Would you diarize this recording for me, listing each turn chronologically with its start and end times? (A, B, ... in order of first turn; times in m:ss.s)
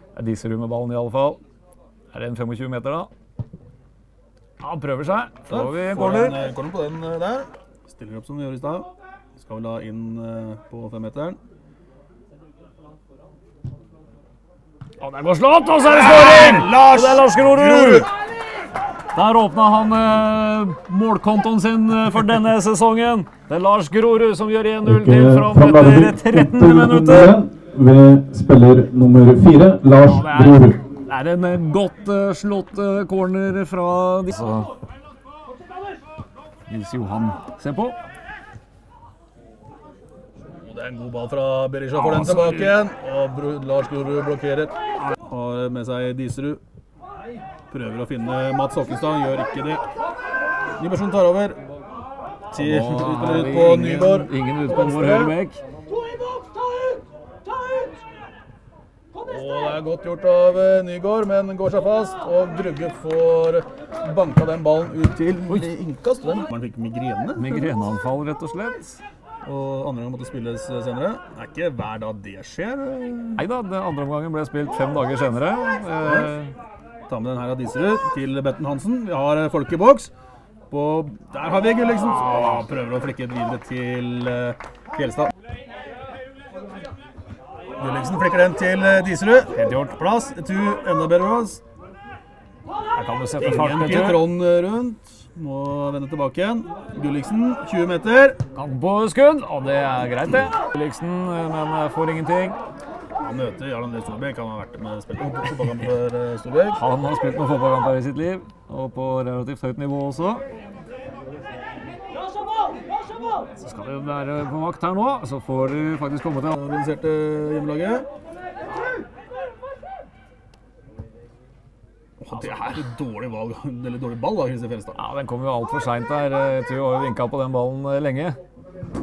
0:00.2-0:01.4 A
0:02.1-0:03.1 A
0:04.6-0:06.4 A
0:05.5-0:11.4 B
0:15.0-0:18.1 A
0:15.9-0:18.1 B
0:19.1-0:27.4 A
0:24.8-0:30.8 C
0:30.0-0:34.7 A
0:36.7-0:38.0 A
0:40.6-0:46.6 B
0:42.0-0:42.8 A
0:47.7-0:49.8 B
0:50.8-0:51.6 B
0:52.5-0:55.3 B
0:52.5-0:55.6 A
0:59.1-1:07.7 B
1:07.4-1:09.0 A
1:09.4-1:13.4 B
1:13.4-1:16.5 A
1:16.0-1:16.3 B
1:17.1-1:20.1 B
1:20.7-1:25.3 B
1:22.0-1:22.6 A
1:27.8-1:31.6 B
1:29.5-1:29.9 A
1:32.9-1:34.2 A
1:33.4-1:38.4 B
1:38.5-1:42.6 A
1:43.2-1:46.8 B
1:46.8-1:50.4 A
1:53.6-1:56.6 A
1:56.5-1:58.1 B
2:02.2-2:05.0 B
2:04.9-2:08.4 A